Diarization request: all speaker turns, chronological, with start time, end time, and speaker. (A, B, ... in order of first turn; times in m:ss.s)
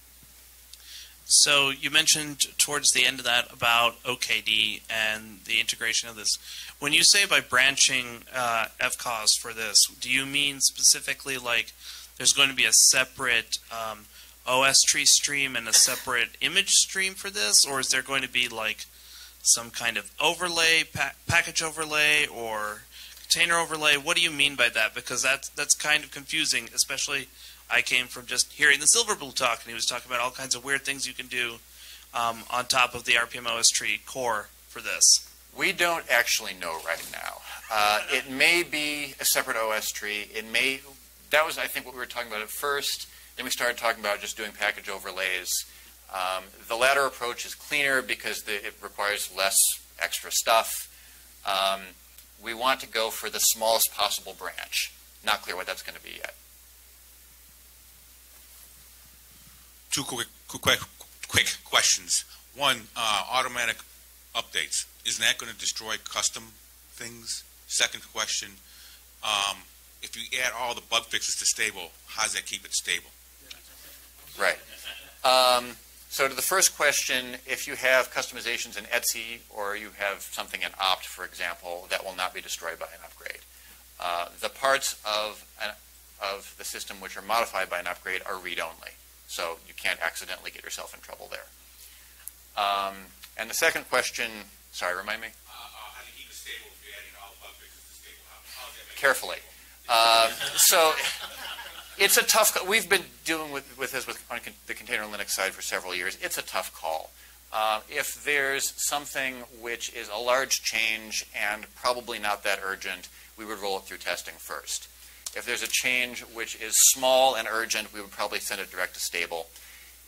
0:01.3-0:18.9 A
0:19.4-0:35.2 A
0:35.5-0:50.9 B
0:51.4-0:56.3 B
0:59.9-1:03.8 C
1:04.3-1:08.6 C
1:09.2-1:13.1 C
1:14.3-1:14.6 B
1:15.2-1:23.4 B
1:24.0-1:31.5 B
1:32.5-1:35.3 B
1:35.4-1:41.0 C
1:39.0-1:41.1 B
1:42.0-1:59.5 B